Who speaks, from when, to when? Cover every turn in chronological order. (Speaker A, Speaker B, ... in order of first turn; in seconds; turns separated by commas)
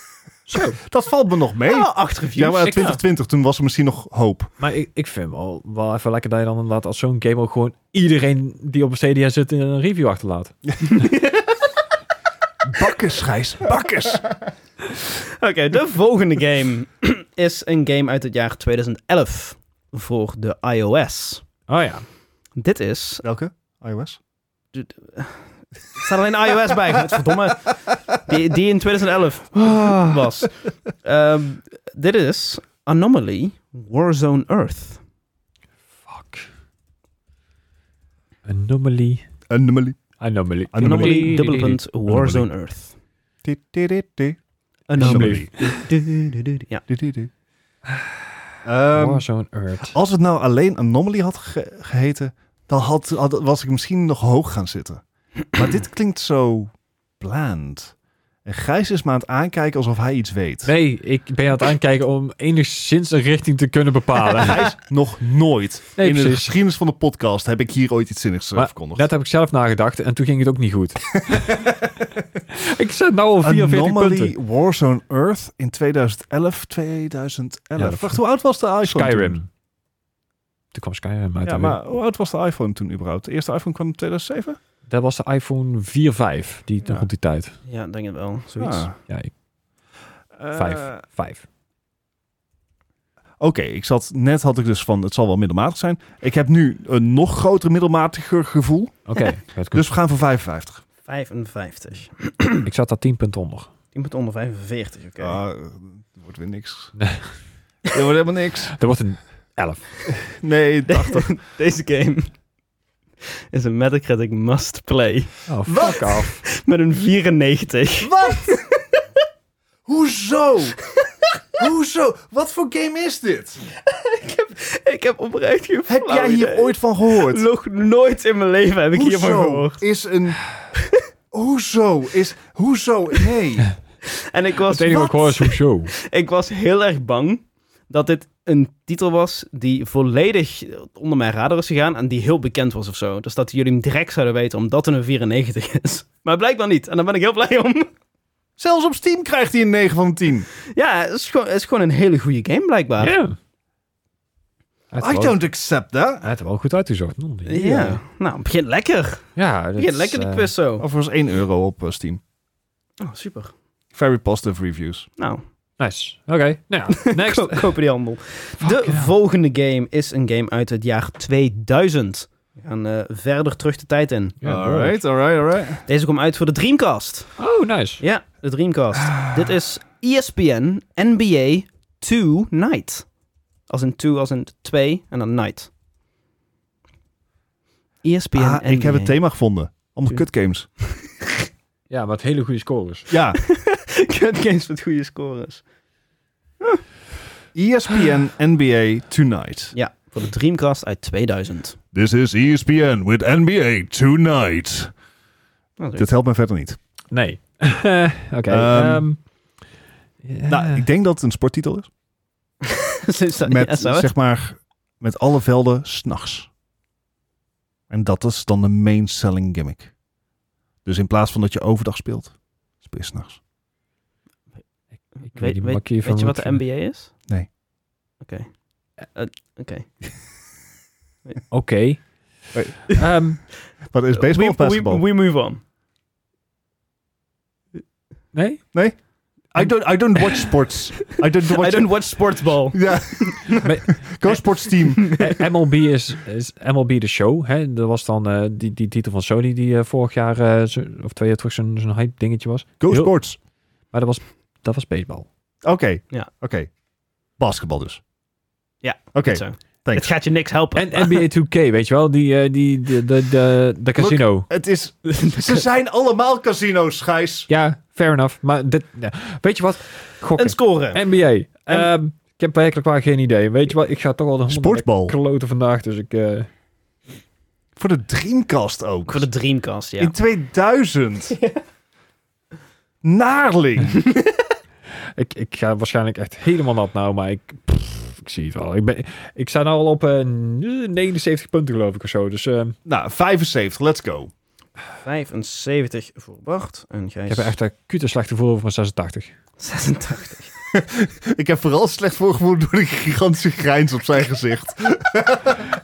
Speaker A: 0.5-0.8, Speaker B: 0.6-4.5, Speaker C: 1.6-3.0, Speaker A: 4.6-11.0, Speaker C: 11.0-11.5, Speaker B: 12.6-14.3, Speaker C: 15.2-21.4, Speaker A: 21.7-22.1, Speaker C: 22.6-23.2, Speaker B: 23.2-24.2, Speaker C: 24.7-35.0, Speaker B: 26.9-27.3, Speaker B: 29.6-30.3, Speaker A: 36.1-36.5, Speaker A: 38.5-39.2, Speaker B: 39.5-40.0, Speaker A: 40.2-41.8, Speaker B: 40.7-41.3, Speaker C: 40.8-42.9, Speaker B: 42.1-42.5, Speaker B: 43.4-44.4, Speaker C: 44.9-46.8, Speaker A: 45.0-45.9, Speaker B: 45.0-45.5, Speaker B: 46.9-47.3, Speaker B: 48.6-49.2, Speaker A: 48.9-50.0, Speaker B: 49.9-55.0, Speaker B: 55.5-57.9, Speaker B: 58.5-60.7, Speaker A: 60.6-64.7, Speaker B: 64.4-69.1, Speaker A: 66.0-66.5, Speaker A: 68.6-71.8, Speaker B: 71.3-71.9, Speaker A: 72.5-74.3, Speaker B: 73.4-79.4, Speaker A: 77.8-78.2, Speaker A: 78.8-79.5, Speaker A: 80.7-81.8, Speaker B: 81.5-84.6, Speaker A: 84.9-87.5, Speaker C: 87.7-88.9, Speaker B: 88.6-89.0, Speaker B: 90.4-91.0, Speaker A: 90.5-91.5, Speaker B: 93.4-99.1, Speaker A: 99.1-99.9, Speaker B: 99.7-100.8, Speaker C: 101.1-102.7, Speaker A: 102.6-103.7, Speaker C: 103.9-105.4, Speaker B: 105.2-106.9, Speaker A: 107.0-107.2, Speaker B: 107.9-108.7, Speaker A: 108.7-109.8, Speaker B: 110.3-111.3, Speaker C: 110.9-112.3, Speaker C: 113.5-119.0, Speaker A: 115.5-116.4, Speaker B: 115.7-116.1, Speaker B: 118.0-118.6, Speaker B: 119.9-120.8, Speaker B: 121.6-123.6, Speaker C: 123.8-129.8, Speaker B: 125.9-127.4, Speaker B: 128.9-130.4, Speaker B: 131.3-133.7, Speaker C: 134.1-147.9, Speaker A: 134.7-135.9, Speaker B: 148.6-150.5, Speaker C: 150.7-153.1, Speaker A: 153.0-153.4, Speaker A: 154.9-155.4, Speaker B: 155.0-156.3, Speaker A: 156.2-158.0, Speaker C: 157.4-160.8, Speaker A: 159.4-160.5, Speaker B: 160.8-162.2, Speaker C: 163.0-163.5, Speaker B: 163.9-165.1, Speaker C: 165.2-165.4, Speaker A: 165.8-167.7, Speaker C: 166.9-174.4, Speaker A: 168.6-169.1, Speaker A: 174.4-175.0, Speaker B: 174.4-175.8, Speaker C: 175.9-177.4, Speaker A: 177.4-178.0, Speaker C: 178.0-183.1, Speaker B: 178.9-179.5, Speaker C: 183.7-185.7, Speaker C: 188.0-189.1, Speaker B: 188.3-190.7, Speaker A: 191.9-193.1, Speaker B: 193.1-193.4, Speaker C: 193.4-195.6, Speaker B: 197.6-199.7, Speaker C: 199.7-201.8, Speaker B: 201.9-204.9, Speaker C: 205.8-206.1, Speaker B: 205.9-206.8, Speaker A: 207.1-209.2, Speaker B: 208.5-209.1, Speaker A: 210.2-210.9, Speaker B: 210.5-211.9, Speaker C: 212.6-214.1, Speaker B: 213.4-216.5, Speaker B: 217.9-219.9, Speaker B: 220.8-223.4, Speaker C: 225.2-227.1, Speaker A: 225.3-226.6, Speaker C: 228.2-229.9, Speaker A: 231.5-233.4, Speaker B: 233.9-235.0, Speaker C: 234.2-235.6, Speaker A: 238.3-238.6, Speaker B: 238.7-239.0, Speaker B: 239.5-245.2, Speaker C: 241.1-243.7, Speaker A: 243.6-243.9, Speaker C: 244.9-245.3, Speaker A: 245.1-253.1, Speaker B: 252.8-253.4, Speaker A: 253.9-255.3, Speaker B: 255.6-256.7, Speaker B: 257.4-258.0, Speaker C: 258.8-261.2, Speaker B: 259.1-260.1, Speaker A: 260.7-264.5, Speaker B: 264.0-267.5, Speaker C: 265.1-265.6, Speaker A: 267.5-276.5, Speaker C: 270.4-271.0, Speaker B: 274.5-275.1, Speaker B: 277.8-279.3, Speaker C: 279.1-280.1, Speaker B: 280.0-281.4, Speaker B: 283.0-284.0, Speaker C: 284.0-284.4, Speaker A: 285.1-292.8, Speaker B: 292.9-294.3, Speaker C: 295.0-297.5, Speaker A: 297.3-299.3, Speaker C: 299.6-300.5, Speaker B: 300.7-305.6